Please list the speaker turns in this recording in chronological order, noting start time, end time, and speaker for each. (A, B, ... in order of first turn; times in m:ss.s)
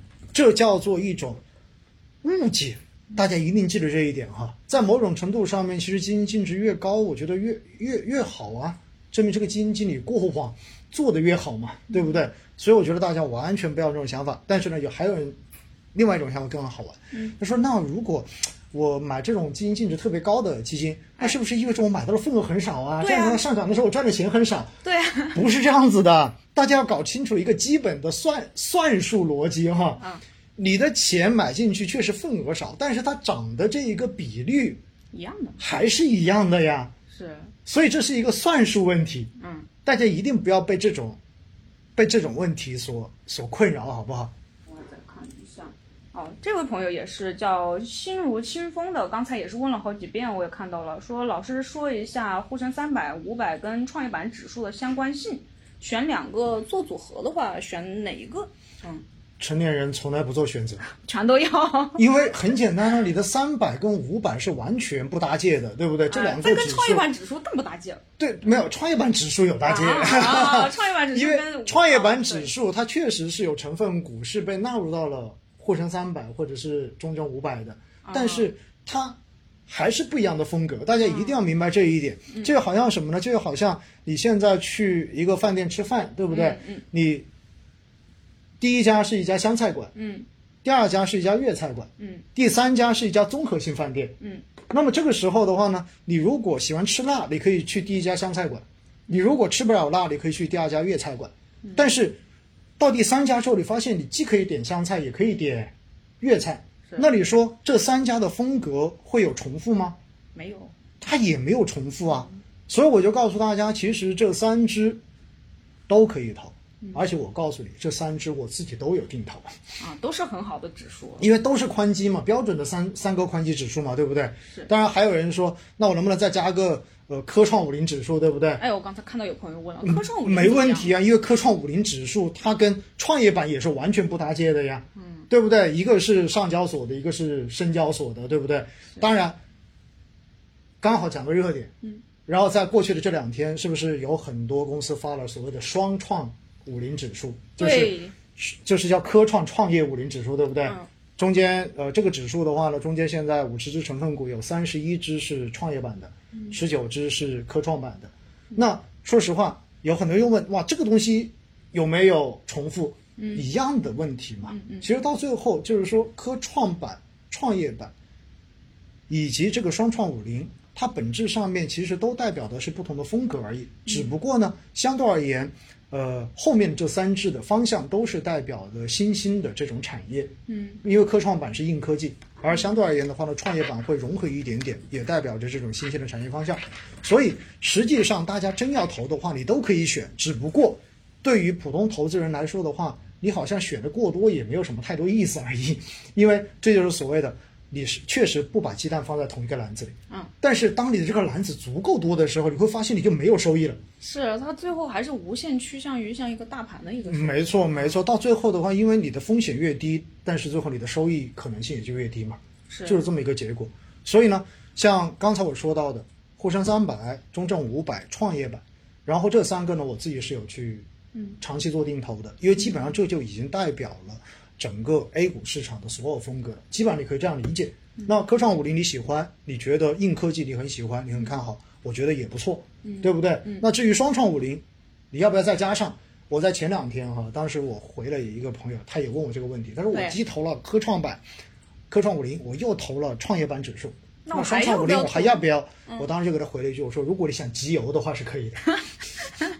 0:00.3-0:01.4 A
0:02.2-0:15.4 A
0:15.9-0:24.7 A
0:23.0-0:23.4 B
0:24.8-0:25.4 B
0:25.3-0:30.0 A
0:30.6-0:34.8 A
0:35.1-0:35.6 B
0:35.6-0:36.9 A
0:37.1-0:37.5 B
0:37.6-0:39.3 A
0:39.4-0:39.7 B
0:39.8-0:41.2 A
0:42.0-0:44.3 A
0:44.7-0:59.0 B
0:59.4-1:00.8 A
1:00.9-1:02.0 B
1:02.0-1:07.1 A
1:06.1-1:08.0 B
1:08.2-1:27.3 A
1:09.6-1:12.5 B
1:18.0-1:18.5 B
1:21.0-1:21.4 B
1:26.3-1:26.8 B
1:28.6-1:29.9 A
1:29.9-1:30.3 B
1:30.6-1:34.2 A
1:32.0-1:32.2 B
1:34.2-1:34.4 B
1:34.7-1:42.2 A
1:41.6-1:41.9 B
1:42.8-1:50.0 A
1:50.3-1:50.7 B
1:51.0-1:55.0 A
1:55.9-1:59.5 A
1:59.8-2:01.3 B
2:01.2-2:08.6 A
2:08.6-2:10.9 B
2:09.8-2:19.4 A
2:15.0-2:15.2 B
2:20.8-2:21.7 A
2:22.2-2:47.9 A
2:27.6-2:28.1 B
2:43.2-2:43.4 B
2:44.5-2:44.8 B
2:49.1-3:00.3 A
3:00.5-3:00.8 B
3:00.8-3:23.8 A
3:24.0-3:28.0 B
3:27.1-3:40.9 A
3:32.7-3:33.0 B
3:41.4-4:01.2 A
3:52.8-3:53.6 B
3:59.9-4:00.2 B
4:01.9-4:08.6 A
4:04.2-4:06.1 B